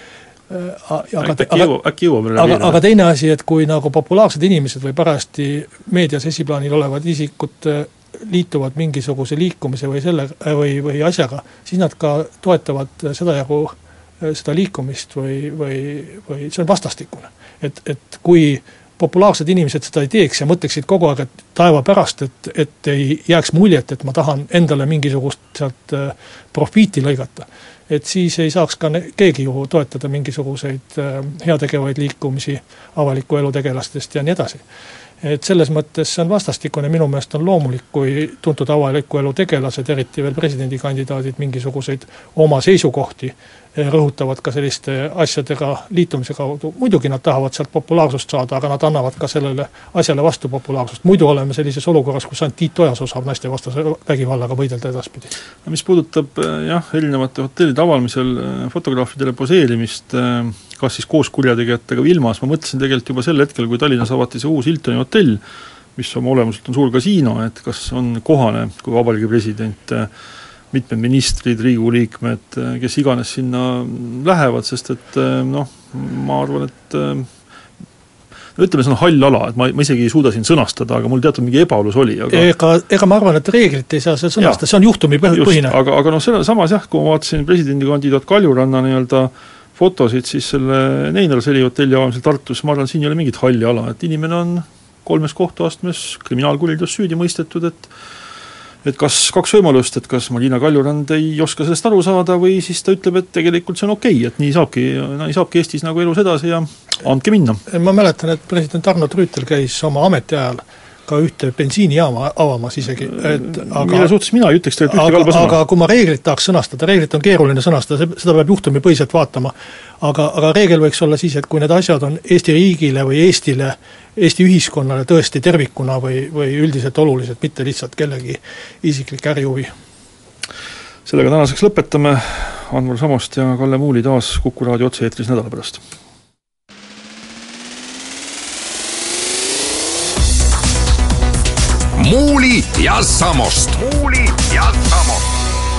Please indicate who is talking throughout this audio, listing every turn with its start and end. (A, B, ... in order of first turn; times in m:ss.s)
0:00.5-0:01.7 A
0:01.2-0:02.8 B
0:02.4-0:34.6 A
0:35.2-0:55.3 A
0:55.6-1:05.4 B
1:06.0-1:10.1 B
1:10.7-1:17.3 B
1:18.6-1:22.5 B
1:22.3-1:25.8 A
1:25.3-1:37.9 B
1:38.8-1:47.6 B
1:47.7-1:54.1 A
1:53.0-1:55.6 B
1:54.8-2:09.7 A
2:11.1-2:15.8 B
2:22.0-2:25.4 C